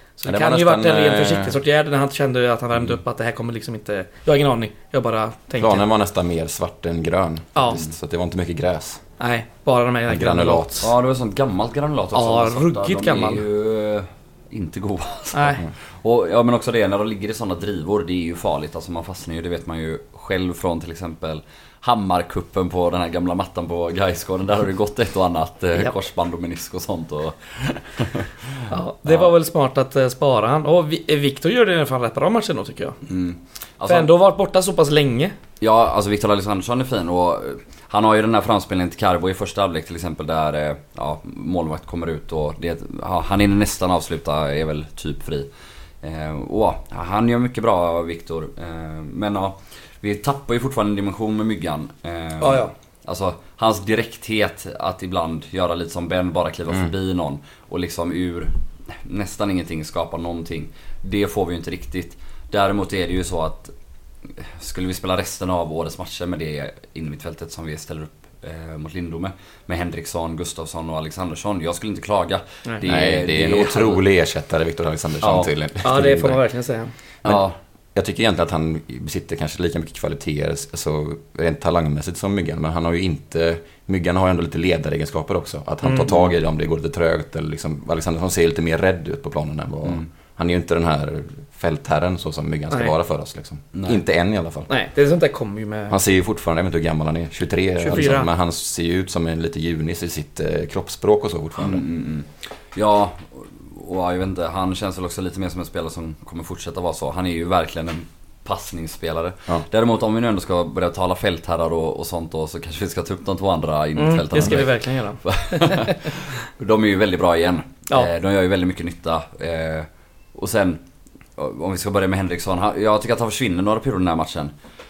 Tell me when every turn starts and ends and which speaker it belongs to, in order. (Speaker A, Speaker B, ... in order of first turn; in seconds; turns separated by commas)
Speaker A: 0.2-5.8, Speaker B: 0.2-1.5, Speaker B: 5.6-9.0, Speaker A: 7.5-7.8, Speaker A: 9.2-10.9, Speaker B: 10.1-10.9, Speaker C: 10.8-29.3, Speaker A: 12.1-13.4, Speaker A: 15.3-15.6, Speaker A: 28.7-33.0, Speaker C: 33.0-34.1, Speaker A: 33.9-35.4, Speaker C: 35.6-45.5, Speaker C: 46.0-63.7, Speaker A: 52.4-52.7, Speaker C: 64.2-74.0, Speaker B: 72.8-76.4, Speaker C: 75.2-75.5, Speaker A: 75.8-76.9, Speaker C: 77.2-77.6, Speaker B: 78.0-94.7, Speaker A: 85.8-86.1, Speaker C: 86.1-86.3, Speaker C: 93.7-94.0, Speaker A: 94.7-96.0, Speaker B: 95.9-101.8, Speaker A: 97.8-98.3, Speaker C: 101.6-120.8, Speaker A: 114.0-116.0, Speaker C: 121.3-124.5